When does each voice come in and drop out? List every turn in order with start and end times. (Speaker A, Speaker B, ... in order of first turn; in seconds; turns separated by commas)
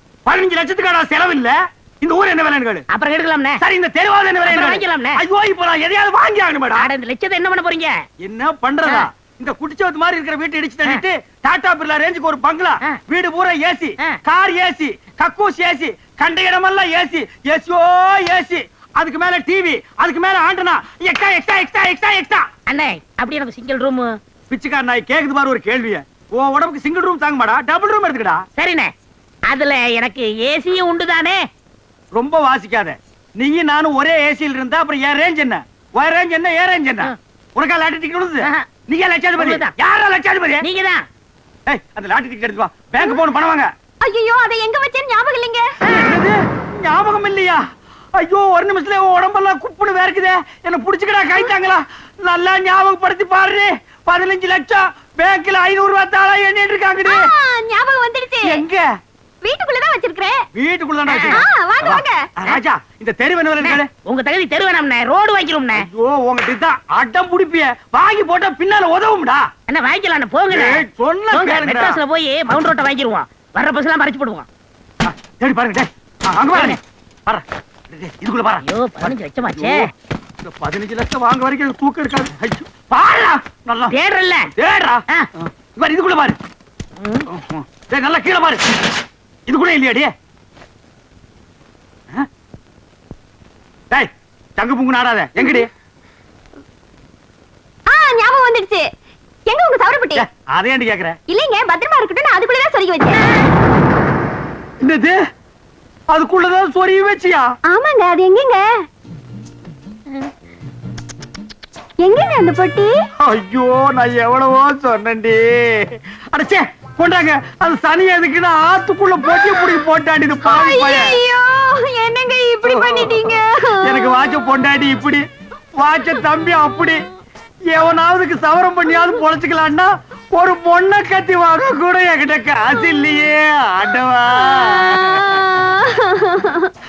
Speaker A: 0.2-2.8, Speaker B: 2.9-3.6, Speaker A: 3.6-6.9, Speaker B: 4.4-5.2, Speaker B: 6.8-7.9, Speaker A: 8.2-22.5, Speaker B: 22.7-24.1, Speaker A: 24.5-28.4, Speaker B: 28.6-28.9, Speaker B: 29.5-31.4, Speaker A: 32.1-40.6, Speaker B: 39.4-39.7, Speaker B: 40.6-41.0, Speaker A: 41.7-43.7, Speaker C: 44.0-45.7, Speaker A: 45.8-47.6, Speaker A: 48.1-57.3, Speaker C: 57.0-58.6, Speaker A: 58.4-58.8, Speaker C: 59.4-60.4, Speaker A: 60.5-63.9, Speaker B: 61.1-61.4, Speaker C: 61.3-62.2, Speaker B: 63.6-65.8, Speaker A: 65.7-69.5, Speaker B: 69.7-74.5, Speaker A: 70.5-72.0, Speaker A: 75.0-79.9, Speaker B: 78.6-79.8, Speaker A: 80.4-83.9, Speaker B: 83.9-84.4, Speaker A: 84.6-86.4, Speaker A: 87.3-88.6, Speaker A: 89.5-90.1, Speaker A: 93.9-95.7, Speaker C: 97.9-98.8, Speaker C: 99.5-100.2, Speaker A: 100.1-101.2, Speaker C: 101.3-103.2, Speaker A: 104.8-105.2, Speaker A: 106.1-107.5, Speaker C: 107.7-108.6, Speaker C: 112.0-112.9, Speaker A: 113.2-121.2, Speaker C: 119.3-119.6, Speaker C: 120.4-124.0, Speaker A: 122.6-125.2, Speaker A: 125.8-127.0, Speaker A: 127.7-135.5, Speaker C: 135.7-136.6